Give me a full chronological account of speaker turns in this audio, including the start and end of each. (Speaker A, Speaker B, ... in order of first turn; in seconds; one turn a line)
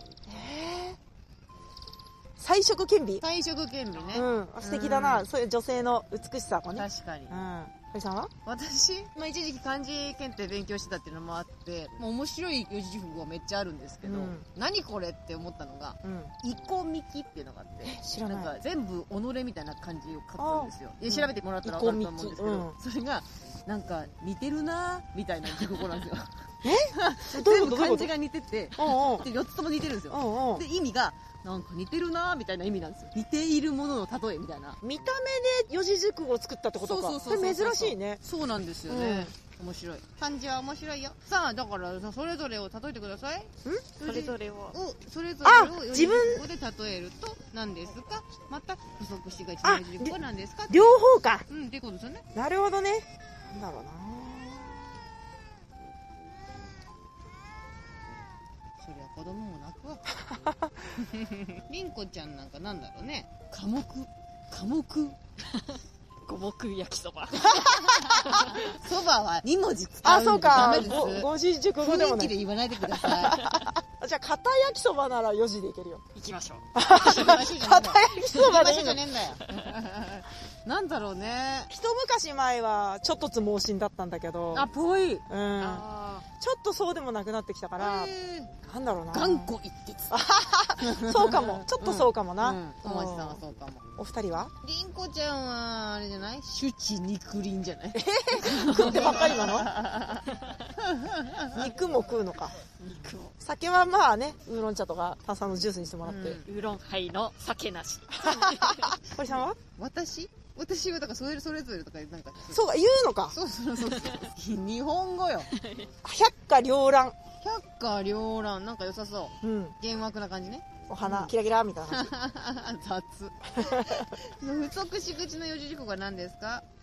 Speaker A: 0.3-1.0
Speaker A: 2.4-3.2
Speaker B: 3.2-5.3
Speaker A: 4.1-8.3
Speaker B: 6.7-7.4
Speaker B: 8.4-34.8
Speaker A: 14.0-14.4
Speaker A: 16.0-16.3
Speaker A: 17.8-18.5
Speaker A: 20.4-22.7
Speaker A: 26.6-28.1
Speaker A: 28.8-29.3
Speaker A: 30.1-30.6
Speaker A: 34.8-38.2
Speaker B: 36.8-50.9
Speaker C: 37.2-37.5
Speaker A: 38.9-39.3
Speaker C: 44.0-44.8
Speaker A: 45.4-46.4
Speaker A: 49.6-50.1
Speaker A: 50.7-51.4
Speaker B: 51.5-52.2
Speaker A: 52.3-54.9
Speaker B: 58.8-60.1
Speaker A: 60.3-60.7
Speaker B: 61.0-65.2
Speaker C: 65.5-68.8
Speaker B: 67.8-71.3
Speaker A: 70.0-72.3
Speaker B: 71.8-73.6
Speaker A: 72.9-76.0
Speaker C: 76.1-76.7
Speaker A: 76.7-79.0
Speaker B: 76.9-81.7
Speaker C: 79.4-79.7
Speaker A: 81.7-84.7
Speaker B: 84.5-85.2
Speaker A: 85.3-89.5
Speaker C: 85.6-86.2
Speaker B: 87.8-88.5
Speaker B: 89.1-90.2
Speaker A: 90.1-93.4
Speaker B: 90.8-93.8
Speaker A: 94.0-94.5
Speaker B: 94.6-100.3
Speaker A: 97.9-99.7
Speaker B: 100.8-101.6
Speaker A: 101.5-102.5
Speaker C: 102.8-103.3
Speaker A: 103.4-106.4
Speaker B: 106.0-106.4
Speaker C: 106.4-109.0
Speaker A: 108.2-109.6
Speaker B: 109.0-112.6
Speaker A: 112.5-113.3
Speaker B: 113.3-115.5
Speaker C: 113.9-114.2
Speaker C: 115.5-115.9
Speaker A: 116.0-117.2
Speaker B: 117.4-121.3
Speaker A: 119.4-119.8
Speaker A: 120.9-122.1
Speaker B: 121.9-126.6
Speaker A: 123.6-124.1